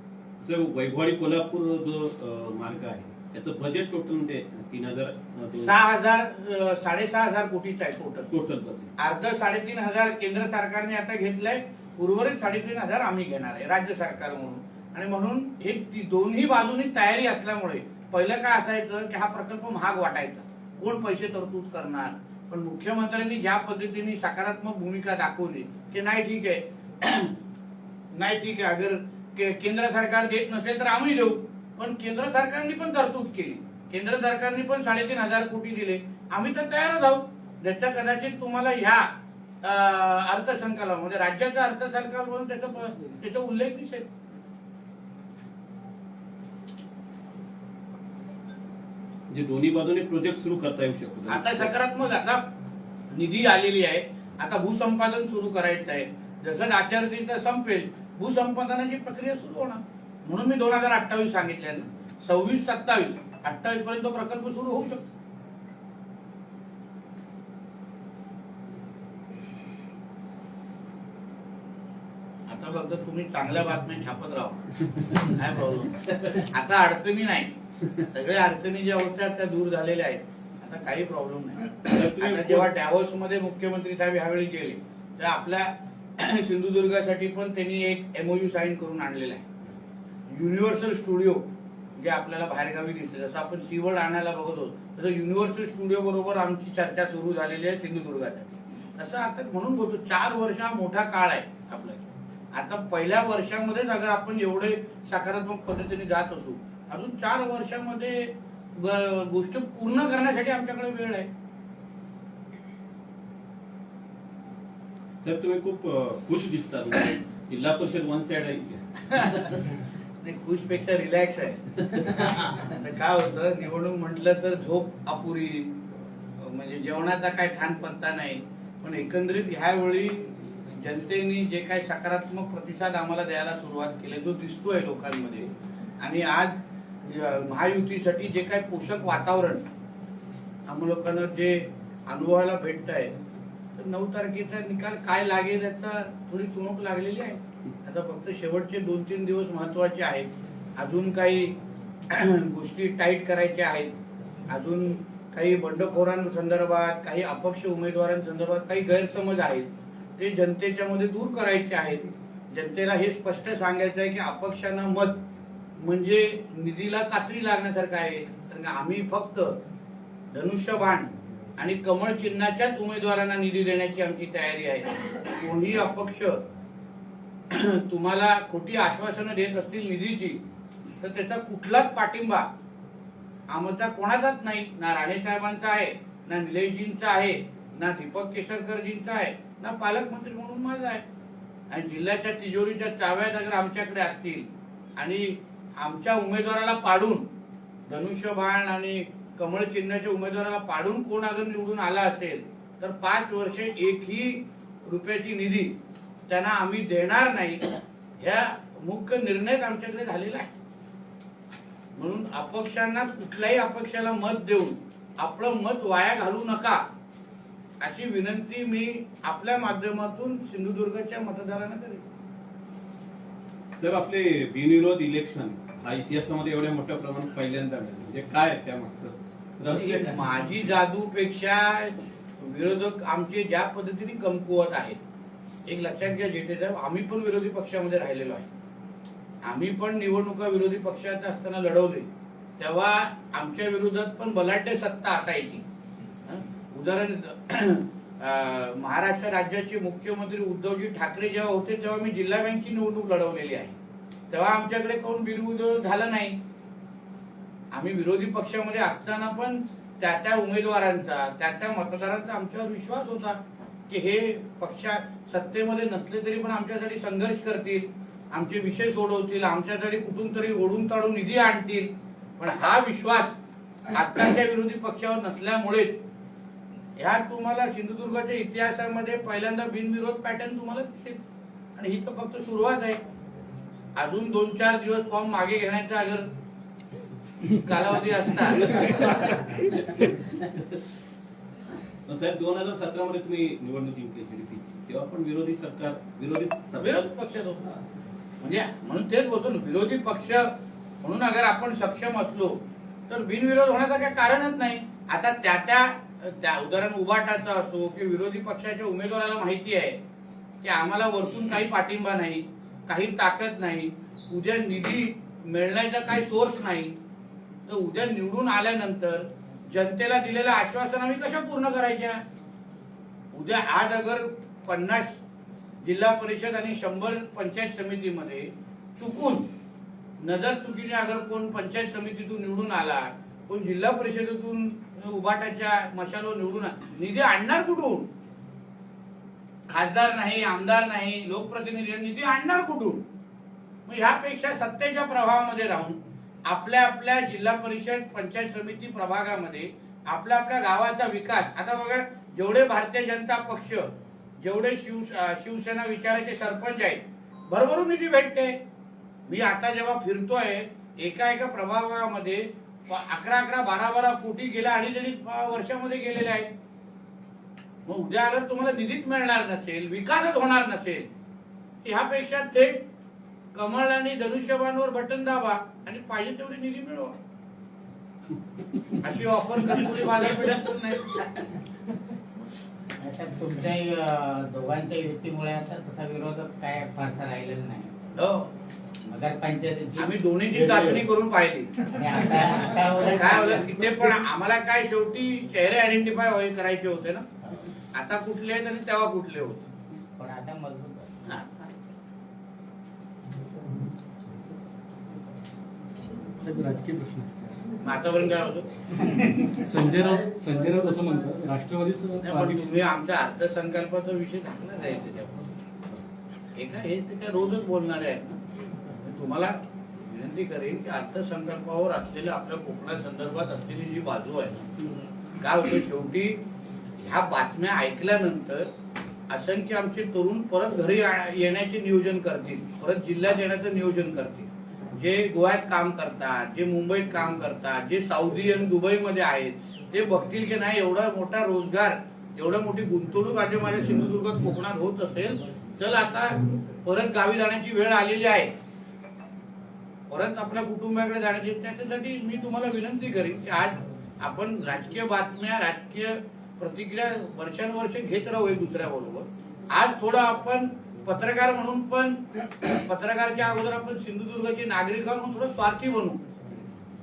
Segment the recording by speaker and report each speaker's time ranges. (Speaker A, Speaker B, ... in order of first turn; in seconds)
Speaker A: 0.4-5.8, 8.3-8.9, 49.3-51.7, 81.9-82.7, 115.2-119.6, 223.8-230.2, 289.8-290.1, 292.1-297.0
Speaker B: 5.6-8.3, 9.0-27.4, 28.2-39.1, 39.6-44.1, 51.3-52.5, 53.1-65.0, 72.5-89.5, 90.3-111.3, 119.1-119.5, 120.2-125.8, 126.4-139.7, 140.7-143.1, 143.8-153.9, 154.5-165.2, 165.8-169.6, 170.3-176.4, 177.5-180.4, 181.0-182.5, 183.5-191.0, 191.7-197.3, 197.9-205.7, 206.3-207.7, 208.2-210.5, 212.0-216.8, 217.8-222.0, 229.7-235.0, 235.7-238.5, 239.4-245.6, 246.3-253.8, 254.3-256.4, 257.7-273.4, 273.9-276.0, 277.0-281.2, 281.8-283.0, 284.0-286.3, 287.5-289.2, 296.8-297.7, 298.4-302.6, 303.1-310.0, 310.6-316.9, 317.7-322.2, 323.3-325.1, 325.8-329.5, 330.2-338.1, 339.7-343.1, 343.9-353.9, 354.4-358.6, 359.3-366.5, 367.9-371.1, 371.8-372.8, 373.5-377.2, 379.0-381.2, 388.2-388.5, 390.0-397.3, 397.9-399.7, 401.3-401.7, 407.8-409.0, 412.2-415.4, 416.6-418.4, 419.0-424.7, 425.4-426.4, 427.0-428.7, 429.3-448.5, 450.1-466.2
Speaker C: 383.0-388.1, 389.1-391.1, 391.9-394.1, 400.1-401.1
Speaker D: 406.4-407.3, 409.5-412.7